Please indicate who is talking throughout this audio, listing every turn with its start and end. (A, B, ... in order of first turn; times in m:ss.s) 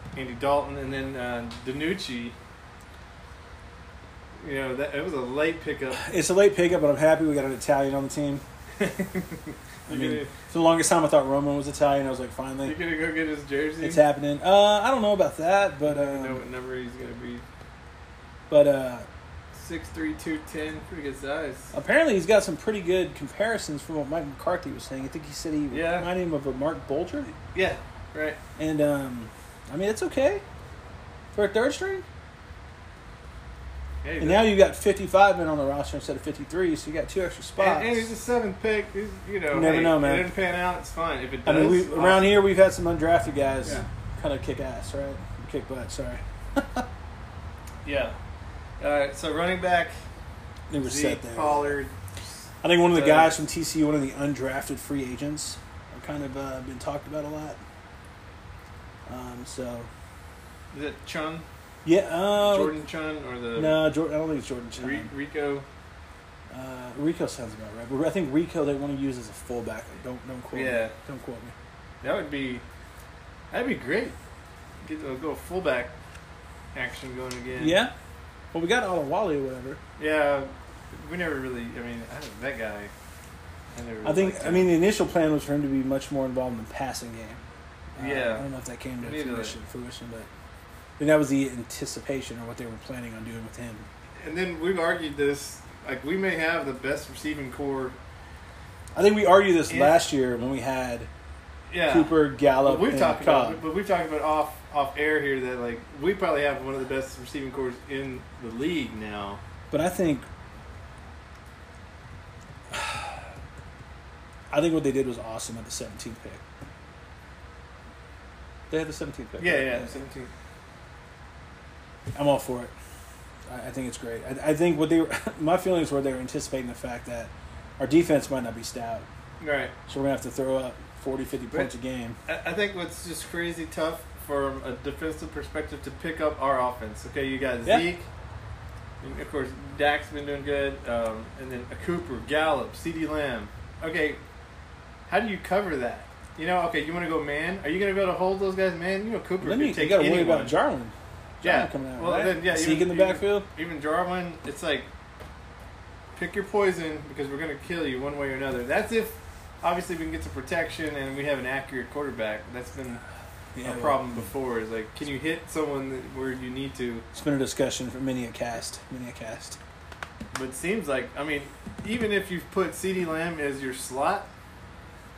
0:00.2-0:02.4 A
0:04.4-0:06.0 A
0:05.9-0:08.4 B
0:08.8-0:10.3 A
0:09.9-0:12.8 B
0:12.6-0:14.0 A
0:13.8-0:16.4 B
0:15.9-0:17.4 A
0:18.5-0:19.1 B
0:19.6-0:21.7 A
0:21.7-0:27.3 B
0:25.7-0:26.1 A
0:27.3-0:28.4 A
0:28.6-0:30.4 B
0:31.3-0:32.0 B
0:34.0-0:34.5 A
0:34.2-0:38.1 B
0:37.6-0:42.3 A
0:39.5-0:40.3 B
0:41.4-0:46.9 B
0:47.8-0:48.2 A
0:48.8-0:49.9 A
0:50.7-0:51.7 B
0:50.8-0:51.9 A
0:52.6-0:57.6 B
0:52.9-0:53.4 A
0:59.1-0:59.9 B
1:00.7-1:01.4 A
1:01.8-1:02.8 B
1:02.4-1:03.8 A
1:03.6-1:05.1 B
1:04.8-1:05.6 A
1:06.5-1:11.6 B
1:10.5-1:10.9 A
1:12.0-1:12.6 A
1:13.5-1:14.2 A
1:14.8-1:15.9 A
1:16.7-1:17.8 A
1:17.6-1:17.9 B
1:18.5-1:19.8 B
1:20.0-1:22.9 A
1:23.8-1:24.7 A
1:24.0-1:27.4 B
1:27.9-1:30.3 B
1:28.0-1:28.5 A
1:29.0-1:29.6 A
1:31.0-1:33.8 B
1:34.2-1:38.0 A
1:38.9-1:41.1 B
1:39.7-1:40.0 A
1:41.7-1:49.4 A
1:41.9-1:43.6 B
1:49.7-1:50.3 B
1:52.7-1:53.2 B
1:54.5-1:56.4 B
1:58.7-1:59.9 B
1:59.4-2:00.3 A
2:02.1-2:02.7 B
2:03.5-2:09.1 B
2:09.4-2:09.7 A
2:09.9-2:12.2 B
2:12.3-2:18.1 A
2:19.0-2:24.2 A
2:25.1-2:30.5 A
2:29.4-2:33.5 B
2:31.4-2:34.9 A
2:36.2-2:43.0 A
2:43.6-2:44.3 B
2:43.6-2:47.0 A
2:47.1-2:49.6 B
2:50.3-2:54.3 A